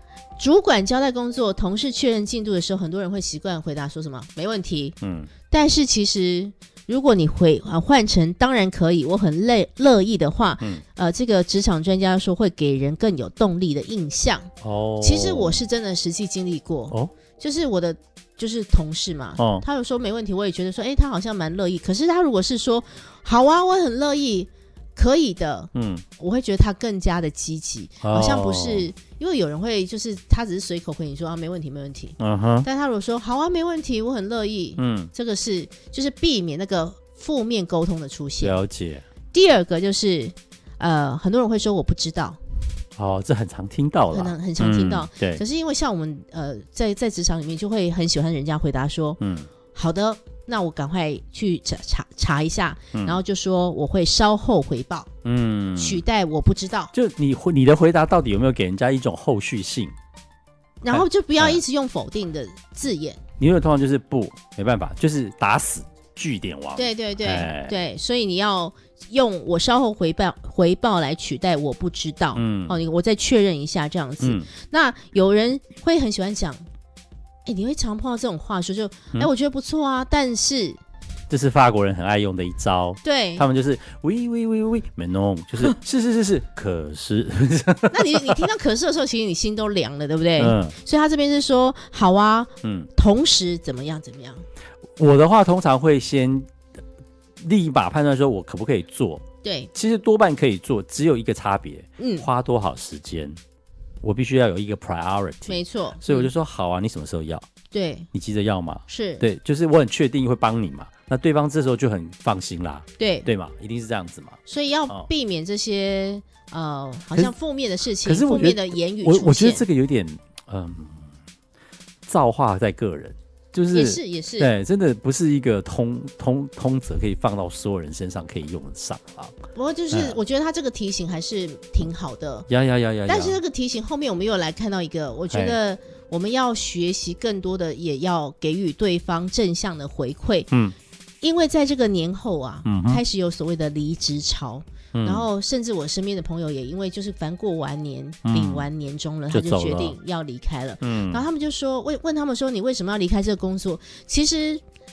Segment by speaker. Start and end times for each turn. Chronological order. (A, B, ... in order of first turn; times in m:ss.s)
0:00.4-0:05.0 A
0:05.0-0:05.3 B
0:05.5-0:38.6 A
0:14.6-0:15.6 B
0:19.4-0:19.6 B
0:25.8-0:26.0 B
0:28.0-0:28.9 B
0:32.2-0:32.7 B
0:34.8-0:35.1 B
0:38.4-0:39.0 B
0:39.3-0:42.4 A
0:43.0-0:45.4 B
0:44.1-0:49.2 A
0:49.2-0:49.5 B
0:49.7-0:55.1 A
0:52.9-0:53.2 B
0:55.2-0:56.0 B
0:55.8-0:56.9 A
0:56.9-0:59.9 B
1:00.8-1:03.2 A
1:00.9-1:01.6 B
1:03.4-1:07.8 B
1:06.8-1:16.6 A
1:12.4-1:12.8 B
1:14.2-1:14.5 B
1:17.5-1:20.8 A
1:21.3-1:28.4 B
1:23.0-1:23.5 A
1:27.9-1:34.4 A
1:30.4-1:30.8 B
1:32.6-1:32.9 B
1:35.0-1:36.5 B
1:37.4-1:39.2 B
1:39.4-1:39.7 A
1:39.7-1:43.4 B
1:42.0-1:42.3 A
1:44.0-1:47.4 B
1:45.5-1:46.3 A
1:47.7-1:48.1 A
1:48.1-1:54.4 B
1:48.9-1:49.3 A
1:53.0-1:53.3 A
1:54.5-1:59.7 A
1:58.0-2:01.1 B
2:02.1-2:09.3 B
2:03.7-2:04.5 A
2:09.5-2:12.5 A
2:09.9-2:10.2 B
2:12.5-2:13.4 B
2:13.1-2:20.5 A
2:15.3-2:15.6 B
2:21.2-2:34.6 A
2:22.6-2:23.0 B
2:25.0-2:25.3 B
2:28.2-2:28.7 B
2:29.3-2:30.0 B
2:30.8-2:31.2 B